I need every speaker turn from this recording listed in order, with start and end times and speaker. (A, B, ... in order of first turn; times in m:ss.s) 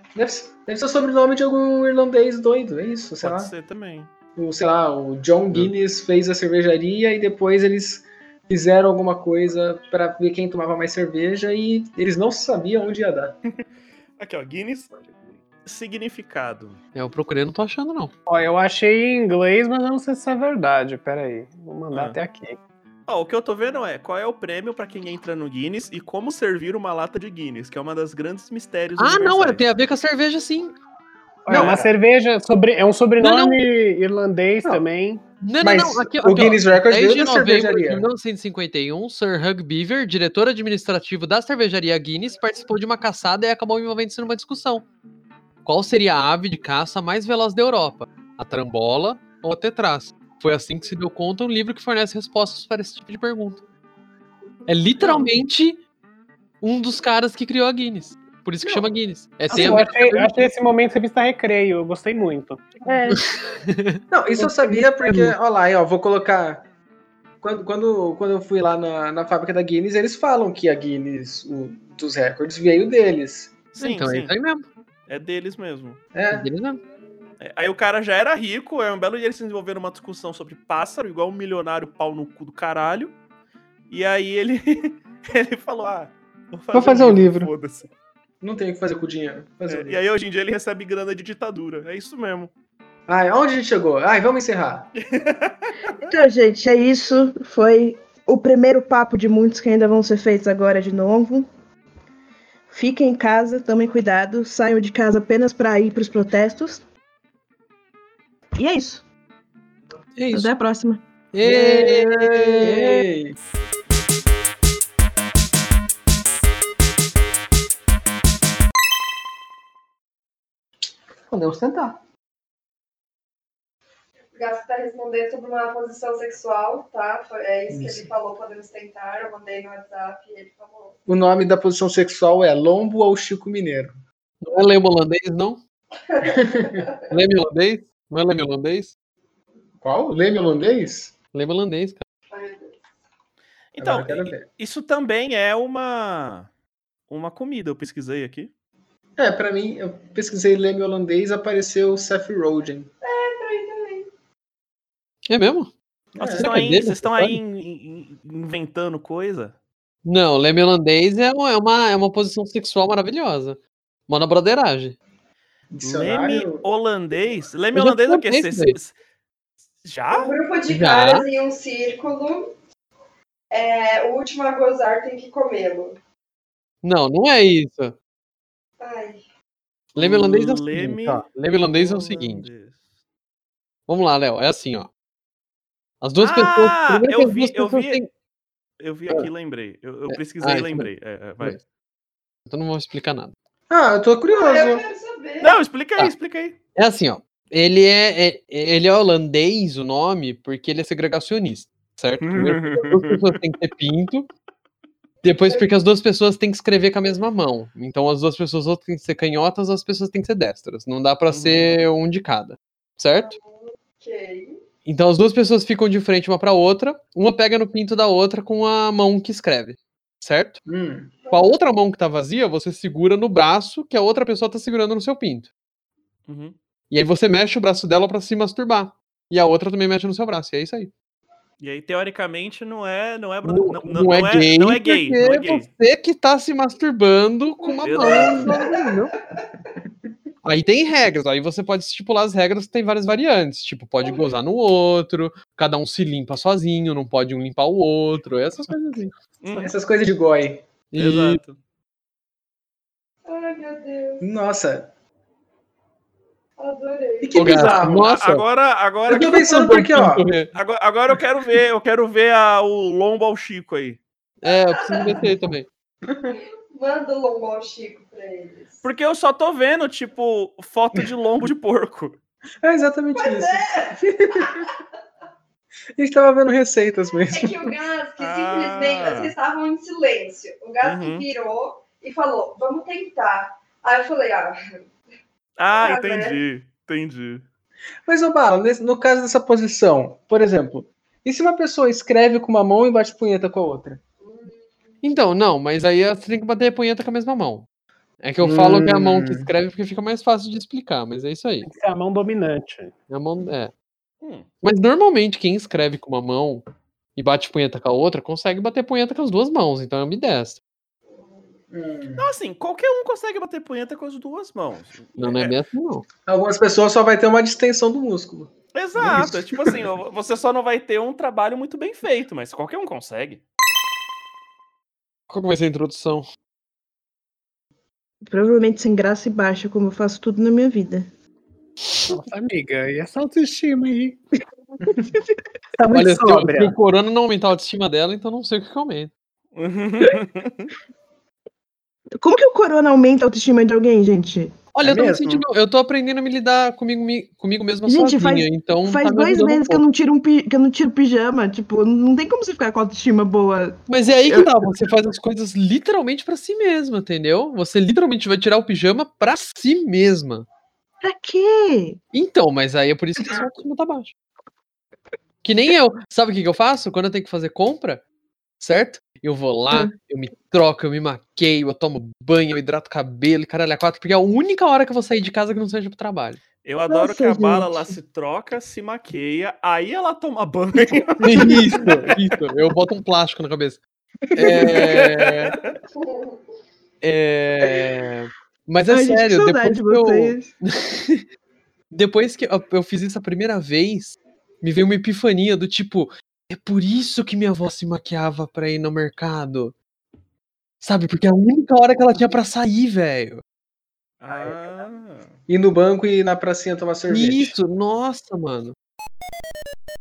0:00.1-0:03.5 A
0:03.2-0:04.1 B
0:04.4-0:13.4 A
0:14.2-0:16.8 B
0:16.9-0:18.1 C
0:18.3-0:22.6 D
0:21.9-0:22.2 B
0:23.1-0:29.6 B
0:29.0-0:30.8 C
0:31.4-0:35.2 D
0:31.5-0:31.8 A
0:31.5-0:31.9 B
0:33.2-0:33.6 C
0:35.4-0:44.9 C
0:35.6-0:38.1 A
0:45.6-0:53.6 C
0:54.7-0:55.8 C
0:56.6-1:00.5 C
0:59.5-1:02.8 D
1:02.8-1:03.2 E
1:03.2-1:04.5 C
1:04.1-1:06.6 A
1:05.0-1:05.3 C
1:07.4-1:13.5 A
1:13.7-1:14.3 B
1:13.8-1:14.6 C
1:15.1-1:16.0 B
1:16.1-1:16.5 A
1:16.3-1:16.8 C
1:17.4-1:23.2 B
1:23.9-1:27.9 B
1:26.7-1:27.5 A
1:28.4-1:30.0 A
1:29.7-1:32.5 B
1:33.1-1:34.9 A
1:35.1-1:36.0 B
1:36.0-1:41.5 E
1:42.7-1:46.8 E
1:48.6-1:49.0 E
1:50.2-1:50.5 C
1:50.3-1:51.0 E
1:51.3-1:53.0 C
1:51.4-1:53.4 A
2:01.3-2:02.0 A
2:04.3-2:11.0 F
2:07.7-2:08.1 A
2:11.1-2:14.0 A
2:14.4-2:15.6 C
2:16.0-2:17.1 F
2:16.2-2:16.8 A
2:17.1-2:18.9 C
2:19.8-2:21.1 A
2:21.3-2:22.0 C
2:22.3-2:22.8 F
2:23.7-2:26.5 B
2:23.8-2:24.4 A
2:27.1-2:28.5 B
2:29.2-2:32.9 A
2:33.0-2:34.1 F
2:35.3-2:35.7 C
2:36.1-2:36.5 A
2:36.2-2:39.5 B
2:36.4-2:37.4 C
2:40.0-2:45.0 C
2:45.7-2:46.6 A
2:45.8-2:48.9 B
2:47.7-2:48.7 C
2:49.8-2:50.4 B
2:50.1-2:52.5 F
2:50.7-2:51.2 C
2:53.5-2:56.0 F
2:56.8-2:57.9 C
2:58.8-2:59.2 F
3:00.0-3:02.5 C
3:00.0-3:02.8 B
3:03.9-3:04.9 C
3:06.0-3:08.1 C
3:06.2-3:08.0 B
3:08.8-3:11.6 B
3:10.1-3:10.9 C
3:12.5-3:13.3 C
3:13.7-3:14.8 A
3:14.3-3:15.6 F
3:15.4-3:16.6 B
3:16.8-3:24.3 C
3:22.2-3:23.2 B
3:25.2-3:33.3 C
3:31.3-3:31.8 B
3:33.1-3:34.6 F
3:34.8-3:40.6 C
3:40.7-3:41.1 A
3:41.2-3:41.5 F
3:41.3-3:45.5 C
3:46.3-3:46.6 B
3:46.9-3:50.9 C
3:51.6-3:55.7 B
3:53.4-3:59.1 C
3:57.6-3:59.4 F
3:57.8-3:58.6 B
4:00.4-4:09.1 C
4:04.0-4:04.3 F
4:09.4-4:09.7 B
4:09.5-4:10.6 A
4:10.9-4:11.4 C
4:11.0-4:11.6 B
4:13.2-4:14.3 F
4:14.2-4:14.9 A
4:16.6-4:17.6 F
4:17.2-4:18.0 A
4:17.4-4:18.4 C
4:17.6-4:19.7 B
4:19.1-4:20.3 A
4:19.5-4:20.5 C
4:20.5-4:24.0 B
4:24.4-4:25.7 C
4:24.5-4:25.2 F
4:26.0-4:26.4 A
4:26.3-4:28.8 F
4:28.8-4:32.2 B
4:32.6-4:34.7 A
4:33.2-4:34.7 F
4:36.0-4:37.7 A
4:37.3-4:44.9 F
4:38.2-4:39.3 B
4:40.8-4:41.2 B
4:45.6-4:47.4 B
4:45.7-4:46.4 F
4:48.0-4:54.0 A
4:54.2-4:54.6 F
4:55.0-4:57.6 C
4:58.2-5:01.7 C
4:58.4-4:59.5 A
5:01.6-5:03.0 D
5:03.1-5:03.7 C
5:04.2-5:04.5 B
5:04.6-5:06.6 C
5:07.2-5:10.6 C
5:11.7-5:12.3 A
5:12.2-5:15.6 B
5:15.2-5:16.0 C
5:16.2-5:19.8 A
5:18.7-5:23.4 B
5:25.3-5:26.3 C
5:28.2-5:31.1 E
5:32.1-5:34.2 D
5:35.8-5:36.8 D
5:35.9-5:39.1 C
5:39.5-5:40.7 B
5:42.2-5:44.5 E
5:44.7-5:49.8 C
5:44.8-5:45.4 A
5:47.9-5:54.5 E
5:53.9-6:00.5 C
6:01.0-6:02.0 E
6:02.1-6:04.1 C
6:05.4-6:08.0 C
6:08.6-6:16.4 C
6:16.6-6:21.8 B
6:16.9-6:17.9 E
6:20.8-6:21.8 A
6:21.2-6:23.8 C
6:24.3-6:25.0 A
6:24.3-6:25.6 C
6:24.8-6:25.7 B
6:26.0-6:26.4 F
6:27.0-6:31.2 C
6:28.9-6:30.5 E
6:31.9-6:39.7 C
6:40.8-6:43.4 C
6:44.2-6:45.3 B
6:45.5-6:47.6 A
6:47.1-6:48.7 C